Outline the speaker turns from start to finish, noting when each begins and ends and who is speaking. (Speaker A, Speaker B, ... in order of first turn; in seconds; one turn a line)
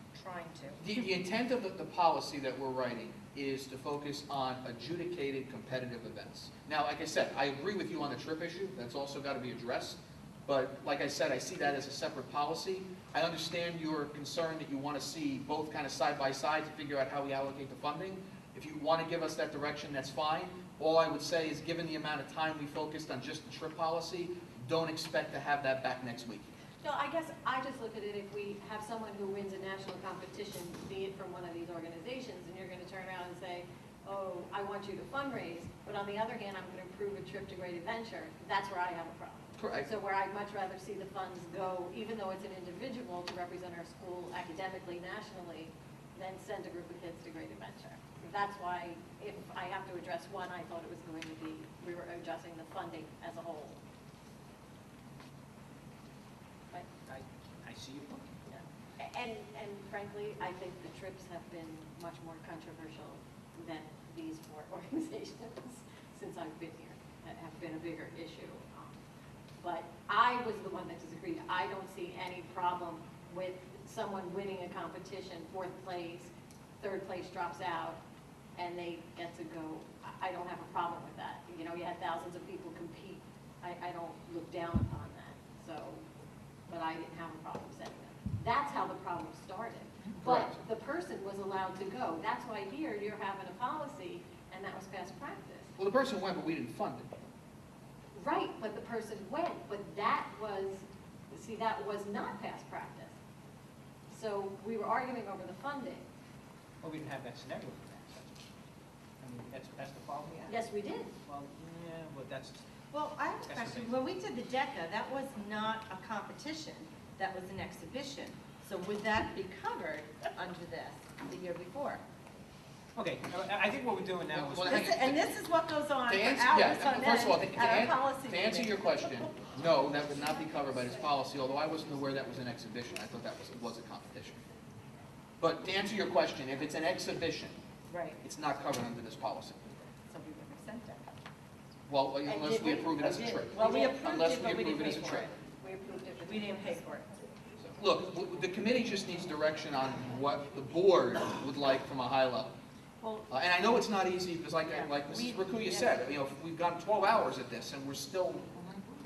Speaker A: 0.1-0.8
Speaker B: 0.8-26.5
Speaker C: 26.8-53.8
Speaker B: 39.6-39.9
Speaker D: 57.0-58.4
Speaker C: 58.5-69.0
Speaker C: 69.6-78.0
Speaker C: 78.5-86.0
Speaker C: 86.7-95.7
Speaker B: 90.2-90.6
Speaker B: 95.8-97.1
Speaker C: 98.1-103.2
Speaker C: 104.1-106.0
Speaker D: 106.8-108.4
Speaker D: 109.2-110.5
Speaker C: 110.5-111.1
Speaker D: 111.2-112.6
Speaker A: 112.9-122.0
Speaker D: 113.5-114.0
Speaker D: 122.9-124.7
Speaker B: 124.3-125.3
Speaker A: 124.6-129.2
Speaker B: 126.1-134.4
Speaker B: 135.4-137.6
Speaker A: 137.9-138.2
Speaker B: 138.2-139.7
Speaker A: 140.1-141.1
Speaker B: 141.9-145.3
Speaker A: 142.2-145.3
Speaker C: 143.5-144.1
Speaker C: 145.3-147.2
Speaker A: 146.2-147.1
Speaker B: 147.6-152.5
Speaker A: 153.0-153.2
Speaker B: 153.3-158.5
Speaker A: 154.6-156.0
Speaker A: 158.6-158.8